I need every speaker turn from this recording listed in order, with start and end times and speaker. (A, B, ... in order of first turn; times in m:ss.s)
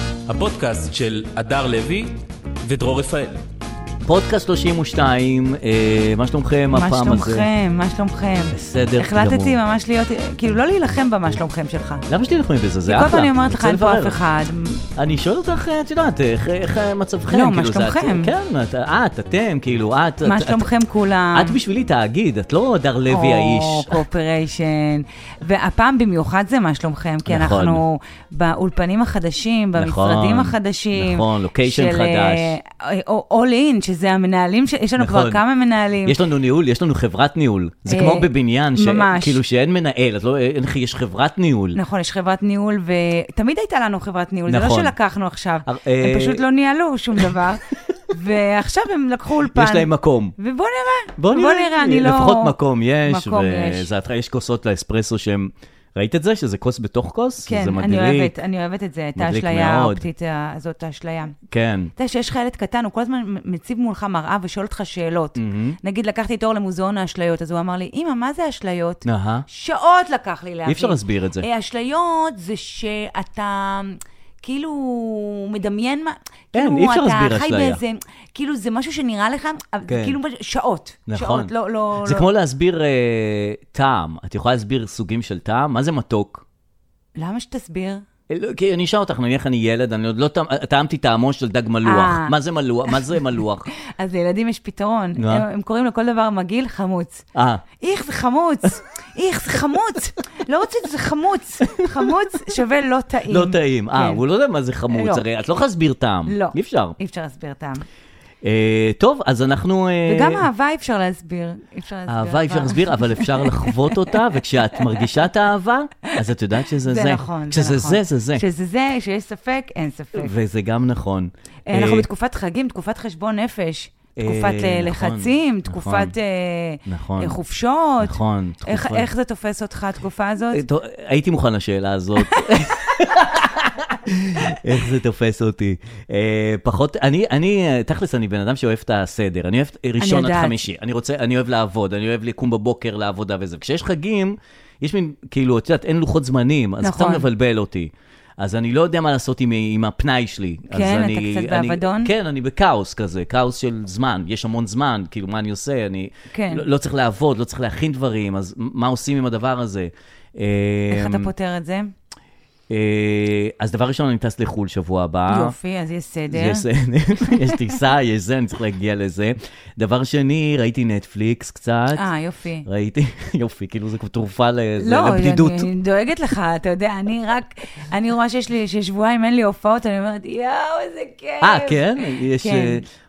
0:00.3-0:03.4 A
0:04.0-0:07.5 B
0:06.7-0:12.0 C
0:08.5-0:09.6 B
0:12.1-0:14.2 B
0:12.9-0:14.8 C
0:15.0-0:20.7 B
0:17.3-0:18.3 C
0:20.2-0:21.6 C
0:21.3-0:24.0 B
0:23.1-0:36.2 C
0:27.3-0:27.8 B
0:29.8-0:32.6 B
0:35.0-0:35.4 B
0:36.0-0:41.8 B
0:37.9-0:39.4 C
0:41.8-0:52.6 C
0:44.5-0:45.0 B
0:45.7-0:46.4 B
0:49.4-0:50.4 B
0:51.2-0:58.4 B
0:53.1-0:53.9 C
0:57.5-1:01.4 C
0:59.2-1:00.0 B
1:01.5-1:01.9 B
1:02.0-1:22.3 C
1:05.4-1:05.8 B
1:09.0-1:09.5 B
1:10.7-1:11.5 B
1:16.5-1:17.8 B
1:19.9-1:20.2 B
1:21.1-1:26.4 B
1:27.2-1:28.0 C
1:28.3-1:33.7 B
1:31.8-1:32.3 C
1:34.0-1:37.3 C
1:35.2-1:35.5 B
1:37.3-1:37.6 B
1:37.8-1:44.2 C
1:41.8-1:42.1 B
1:43.3-1:47.0 B
1:44.9-1:45.2 C
1:46.3-1:47.8 C
1:48.4-1:50.5 B
1:50.1-1:54.1 C
1:52.1-1:58.4 B
1:56.8-2:00.3 C
2:00.2-2:02.1 B
2:01.7-2:10.6 C
2:04.2-2:06.1 B
2:06.9-2:07.4 B
2:08.0-2:09.1 B
2:10.5-2:41.3 B
2:12.2-2:12.6 C
2:20.0-2:20.6 C
2:26.8-2:27.2 C
2:30.7-2:32.1 C
2:36.3-2:36.6 C
2:40.9-2:41.9 C
2:42.7-2:45.6 B
2:45.3-2:46.7 C
2:46.3-2:52.1 B
2:47.2-2:47.8 C
2:51.9-2:52.7 C
2:52.7-2:55.7 B
2:54.8-3:02.8 C
3:01.4-3:02.8 B